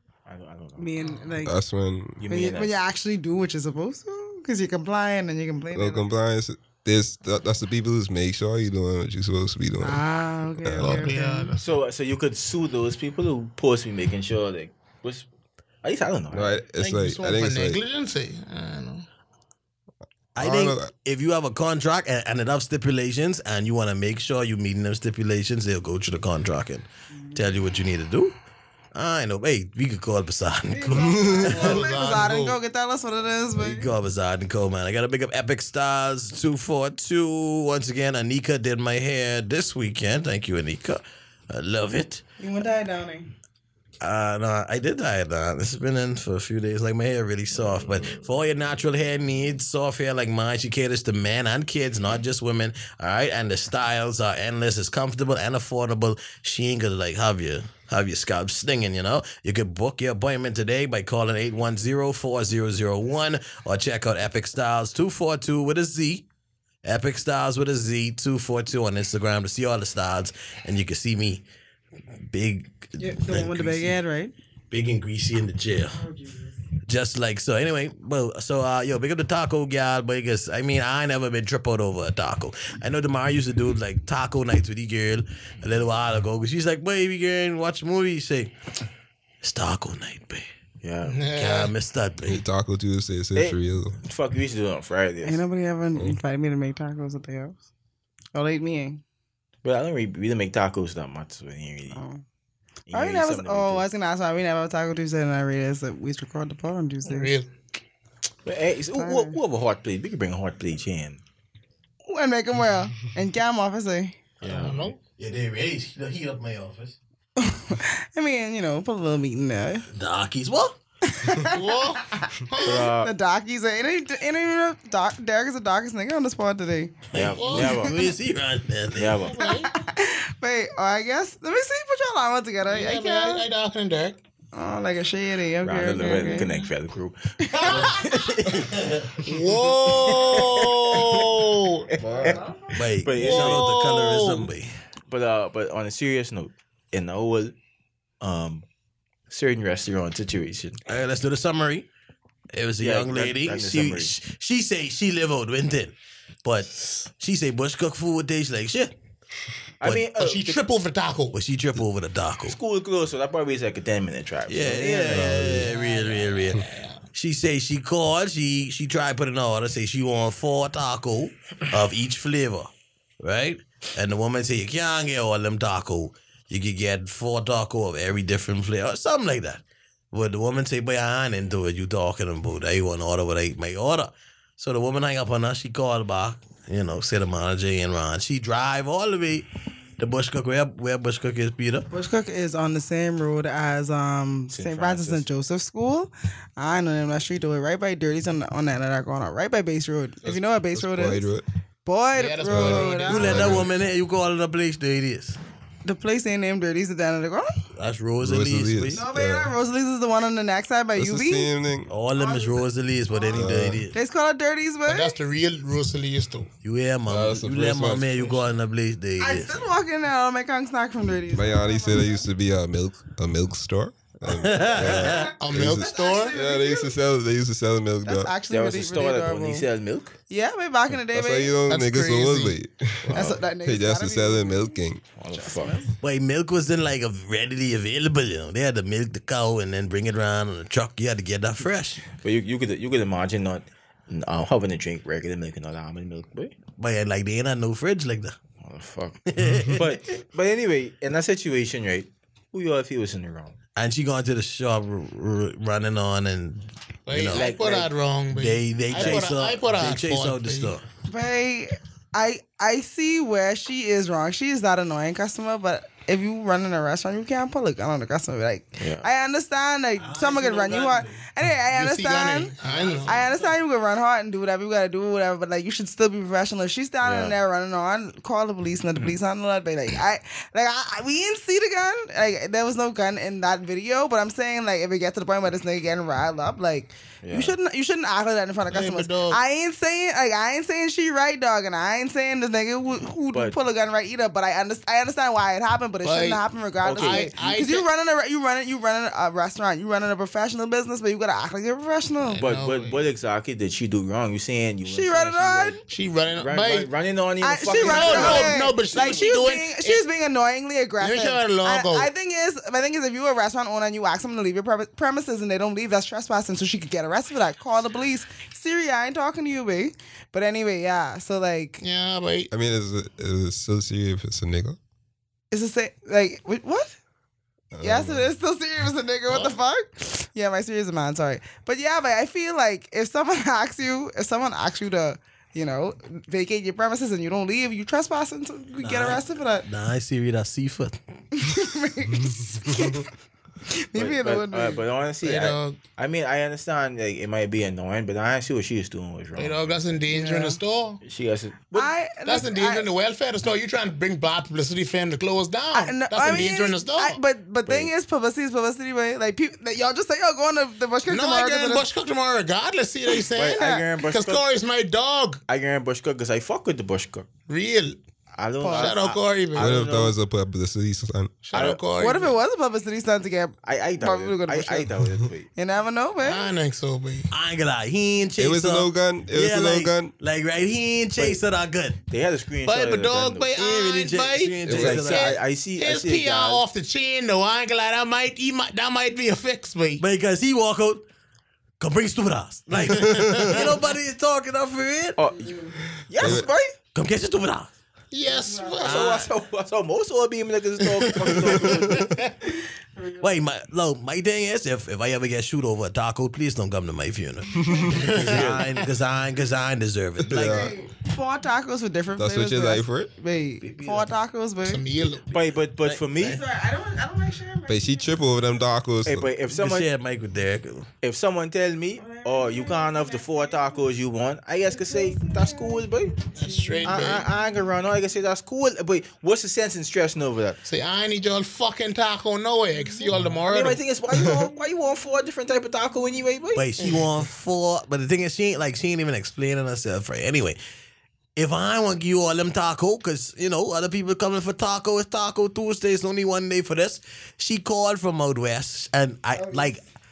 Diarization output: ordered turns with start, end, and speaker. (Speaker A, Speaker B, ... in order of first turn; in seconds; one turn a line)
Speaker A: 0.3-1.0
Speaker B: 0.8-1.6
Speaker C: 1.4-2.2
Speaker A: 2.2-2.8
Speaker B: 2.3-6.1
Speaker C: 5.7-10.1
Speaker B: 9.8-11.5
Speaker C: 10.6-11.1
Speaker D: 10.8-11.7
Speaker A: 11.6-15.3
Speaker A: 15.8-16.6
Speaker C: 16.3-17.8
Speaker D: 16.7-19.1
Speaker C: 20.4-20.9
Speaker E: 20.4-28.3
Speaker E: 28.9-31.6
Speaker B: 30.7-33.9
Speaker C: 31.0-31.3
Speaker D: 31.4-32.6
Speaker E: 33.6-42.2
Speaker B: 42.4-43.3
Speaker E: 44.0-66.2
Speaker D: 47.6-48.3
Speaker E: 66.8-71.4
Speaker E: 72.3-74.0
Speaker B: 73.0-74.3
Speaker E: 74.7-76.0
Speaker B: 75.9-76.6
Speaker E: 76.9-88.5
Speaker E: 89.4-90.5
Speaker A: 90.8-91.2
Speaker D: 91.0-91.7
Speaker E: 91.4-92.4
Speaker C: 92.2-94.0
Speaker A: 93.4-95.5
Speaker B: 95.2-97.6
Speaker B: 98.3-99.0
Speaker A: 99.6-102.0
Speaker B: 101.9-102.2
Speaker A: 102.9-103.8
Speaker B: 102.9-107.3
Speaker D: 107.1-107.5
Speaker A: 108.5-111.2
Speaker B: 109.0-109.4
Speaker B: 112.1-114.2
Speaker D: 114.4-115.0
Speaker A: 114.4-114.9
Speaker E: 115.2-117.0
Speaker B: 117.4-119.8
Speaker E: 120.0-120.8
Speaker B: 121.0-127.0
Speaker D: 121.5-122.9
Speaker A: 122.6-123.1
Speaker A: 127.1-128.1
Speaker E: 127.2-129.3
Speaker D: 127.3-127.8
Speaker A: 128.9-129.4
Speaker D: 129.2-129.7
Speaker B: 129.4-133.5
Speaker D: 132.7-134.2
Speaker B: 134.5-136.6
Speaker A: 135.6-138.7
Speaker B: 137.5-138.0
Speaker D: 139.2-141.9
Speaker A: 140.0-141.4
Speaker A: 141.9-142.4
Speaker C: 142.0-142.4
Speaker B: 142.1-142.9
Speaker E: 142.7-144.8
Speaker A: 143.0-143.7
Speaker D: 143.2-144.5
Speaker A: 145.1-147.5
Speaker A: 148.2-148.7
Speaker A: 149.3-150.8
Speaker E: 150.9-151.9
Speaker E: 152.5-158.9
Speaker A: 152.8-154.1
Speaker A: 159.8-160.6
Speaker D: 160.1-161.4
Speaker E: 161.3-162.6
Speaker A: 162.5-165.4
Speaker E: 164.5-166.6
Speaker C: 165.1-165.7
Speaker D: 165.6-167.0
Speaker E: 167.1-172.7
Speaker E: 173.2-189.5
Speaker E: 190.0-191.9
Speaker B: 191.9-201.3
Speaker A: 194.5-195.3
Speaker C: 200.2-201.4
Speaker B: 201.8-203.7
Speaker D: 202.1-203.7
Speaker C: 202.5-203.7
Speaker E: 203.1-205.4
Speaker B: 205.8-207.5
Speaker E: 207.7-209.0
Speaker C: 208.2-209.5
Speaker B: 208.9-211.5
Speaker C: 211.0-211.9
Speaker E: 211.9-213.9
Speaker B: 212.1-215.2
Speaker C: 213.3-213.8
Speaker D: 214.9-216.5
Speaker E: 216.6-219.7
Speaker C: 217.1-218.3
Speaker B: 219.2-222.3
Speaker C: 221.3-228.3
Speaker E: 224.4-225.3
Speaker B: 224.8-227.0
Speaker D: 225.4-226.3
Speaker B: 228.1-229.7
Speaker A: 228.5-230.2
Speaker B: 230.3-231.6
Speaker C: 231.1-235.0
Speaker D: 231.7-232.6
Speaker A: 233.1-233.4
Speaker B: 233.1-236.0
Speaker A: 235.2-235.8
Speaker E: 236.0-242.1
Speaker A: 242.2-246.6
Speaker E: 246.8-248.4
Speaker A: 248.6-249.2
Speaker E: 249.3-250.2
Speaker A: 249.7-253.6
Speaker E: 253.8-257.5
Speaker D: 257.1-260.8
Speaker A: 257.3-257.9
Speaker E: 258.3-260.8
Speaker A: 258.9-259.3
Speaker B: 261.1-272.6
Speaker A: 268.8-269.1
Speaker E: 270.0-271.2
Speaker D: 271.7-273.2
Speaker E: 272.6-273.5
Speaker B: 273.1-302.4
Speaker A: 277.0-277.4
Speaker A: 287.2-287.6
Speaker D: 288.7-289.4
Speaker D: 296.0-297.9
Speaker A: 296.8-297.3
Speaker D: 302.3-303.1
Speaker A: 302.4-305.8
Speaker B: 304.9-305.8
Speaker D: 305.9-306.9
Speaker A: 306.3-308.6
Speaker B: 307.4-321.8
Speaker D: 307.7-310.0
Speaker D: 311.0-312.1
Speaker D: 321.8-322.5
Speaker C: 322.5-324.8
Speaker B: 325.5-326.9
Speaker C: 327.7-328.3
Speaker B: 327.8-339.7
Speaker D: 329.3-329.6
Speaker E: 338.8-341.0
Speaker B: 341.3-343.1
Speaker C: 342.7-343.0
Speaker B: 343.7-344.8
Speaker A: 344.0-349.8
Speaker D: 345.2-345.8
Speaker D: 349.4-351.0
Speaker B: 350.1-350.6
Speaker A: 351.0-351.9
Speaker B: 351.7-352.9
Speaker D: 352.2-357.2
Speaker B: 355.7-361.9
Speaker D: 361.1-365.4
Speaker B: 363.1-363.8
Speaker A: 363.4-364.5
Speaker A: 365.5-367.3
Speaker D: 367.5-368.0
Speaker A: 368.4-370.2
Speaker B: 368.6-369.0
Speaker D: 368.7-369.7
Speaker C: 369.6-371.4
Speaker D: 371.4-372.3
Speaker A: 371.5-371.8
Speaker B: 372.0-374.9
Speaker A: 373.6-375.5
Speaker B: 375.6-376.5
Speaker D: 376.2-377.3
Speaker E: 377.3-382.0
Speaker C: 378.4-380.1
Speaker A: 382.1-383.6
Speaker D: 382.6-390.0
Speaker E: 383.6-385.4
Speaker A: 384.7-386.6
Speaker C: 384.7-384.9
Speaker E: 390.0-391.0
Speaker E: 391.8-395.2
Speaker C: 393.0-393.6
Speaker D: 393.1-393.5
Speaker A: 395.2-395.5
Speaker B: 395.4-395.8
Speaker A: 396.1-396.7
Speaker C: 396.1-396.5
Speaker E: 396.9-397.7
Speaker D: 398.1-399.1
Speaker B: 398.2-399.0
Speaker A: 398.8-402.1
Speaker E: 398.8-399.3
Speaker D: 400.9-402.3
Speaker C: 401.7-402.0
Speaker B: 403.0-403.4
Speaker E: 403.2-410.7
Speaker C: 407.6-408.0
Speaker D: 407.9-408.8
Speaker A: 408.2-408.6
Speaker C: 410.2-410.7
Speaker B: 410.4-414.8
Speaker C: 412.2-413.1
Speaker E: 413.6-414.1
Speaker D: 414.6-415.4
Speaker A: 415.3-416.4
Speaker E: 415.8-416.3
Speaker B: 416.2-418.4
Speaker C: 417.7-419.3
Speaker A: 419.1-419.9
Speaker E: 419.5-420.9
Speaker A: 421.0-426.2
Speaker B: 422.0-423.9
Speaker B: 424.7-427.2
Speaker D: 426.3-427.3
Speaker A: 426.8-430.6
Speaker D: 430.6-433.8
Speaker A: 433.5-436.7
Speaker E: 436.6-440.6
Speaker E: 441.4-449.8
Speaker B: 449.4-449.7